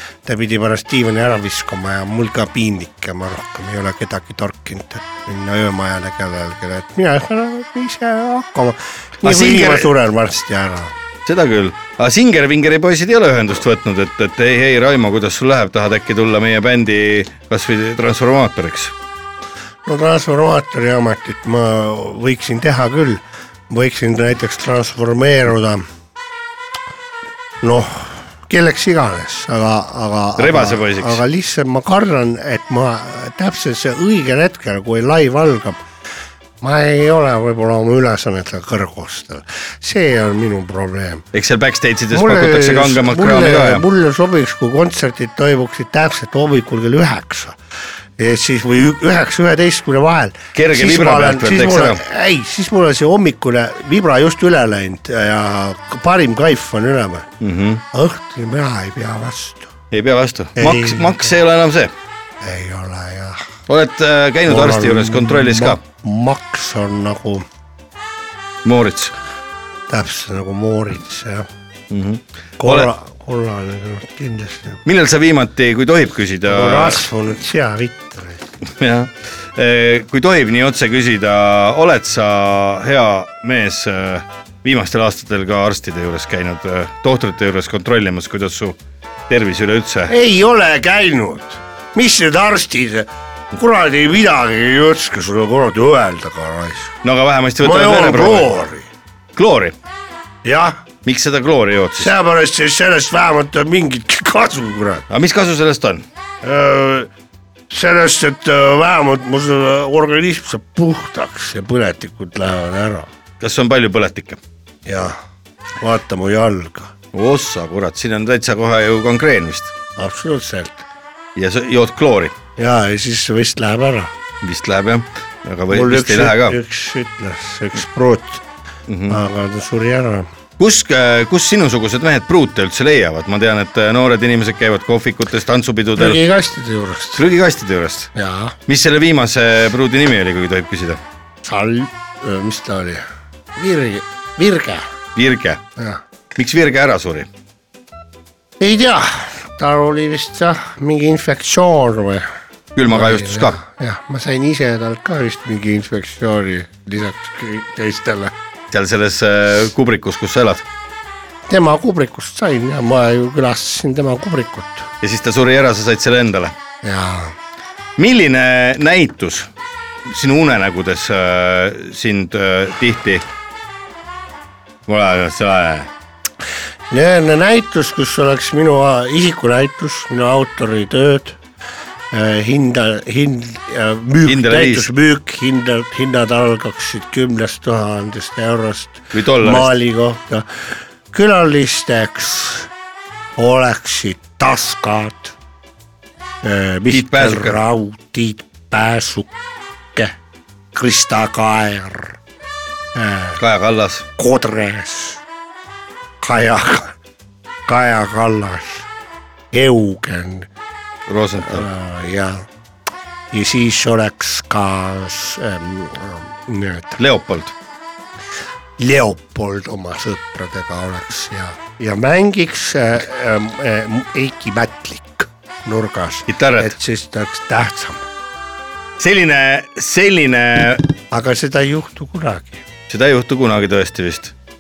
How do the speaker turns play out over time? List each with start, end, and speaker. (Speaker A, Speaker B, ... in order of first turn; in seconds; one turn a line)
Speaker A: 0.2-10.9
Speaker B: 9.2-9.9
Speaker B: 11.2-18.9
Speaker A: 19.9-25.8
Speaker A: 27.6-35.8
Speaker B: 30.4-31.2
Speaker A: 36.6-41.3
Speaker B: 41.3-43.9
Speaker A: 42.1-47.6
Speaker A: 48.2-57.3
Speaker B: 50.5-52.0
Speaker B: 57.4-57.8
Speaker A: 57.9-59.7
Speaker B: 59.9-61.9
Speaker A: 60.6-61.3
Speaker A: 62.4-63.5
Speaker B: 63.7-65.8
Speaker A: 64.5-67.5
Speaker B: 68.6-69.2
Speaker A: 69.9-71.5
Speaker B: 71.9-72.9
Speaker A: 72.6-74.8
Speaker B: 74.8-77.0
Speaker A: 76.5-78.4
Speaker B: 78.8-88.8
Speaker B: 89.3-90.1
Speaker A: 90.1-97.0
Speaker B: 97.0-98.5
Speaker A: 97.6-98.9
Speaker B: 99.4-99.8
Speaker A: 100.4-100.8
Speaker B: 101.0-102.1
Speaker A: 102.0-105.1
Speaker B: 105.1-106.0
Speaker A: 106.4-107.1
Speaker A: 107.7-113.1
Speaker B: 113.4-114.4
Speaker A: 114.9-115.2
Speaker A: 115.8-116.9
Speaker B: 117.1-119.7
Speaker A: 120.0-120.9
Speaker B: 121.4-122.3
Speaker A: 122.6-124.1
Speaker B: 124.4-126.6
Speaker A: 125.7-128.4
Speaker B: 128.9-129.2
Speaker A: 129.1-130.3
Speaker B: 130.6-136.2
Speaker A: 136.0-137.2
Speaker B: 137.2-138.1
Speaker A: 138.2-138.6
Speaker B: 138.7-141.0
Speaker A: 141.4-144.9
Speaker B: 145.2-145.6
Speaker A: 145.8-146.0
Speaker B: 146.3-147.3
Speaker A: 148.6-152.3
Speaker B: 152.8-153.6
Speaker A: 152.9-158.3
Speaker B: 158.7-160.7
Speaker A: 161.5-164.9
Speaker B: 165.0-166.6
Speaker A: 166.8-167.3
Speaker B: 168.0-169.5
Speaker B: 170.1-173.2
Speaker B: 174.9-175.9
Speaker A: 176.9-181.4
Speaker A: 182.1-192.7
Speaker B: 184.3-184.9
Speaker B: 189.1-189.7
Speaker A: 193.4-195.3
Speaker A: 196.4-199.3
Speaker B: 196.9-197.6
Speaker A: 200.7-202.2
Speaker A: 202.9-203.4
Speaker B: 203.4-204.1
Speaker A: 204.2-205.2
Speaker A: 206.2-206.9
Speaker A: 207.7-208.9
Speaker A: 209.5-210.5
Speaker B: 211.1-211.7
Speaker A: 211.4-212.5
Speaker A: 213.3-217.0
Speaker B: 217.0-217.6
Speaker A: 218.8-228.1
Speaker B: 226.3-226.7
Speaker B: 229.0-230.9
Speaker A: 231.1-232.6
Speaker B: 232.9-234.3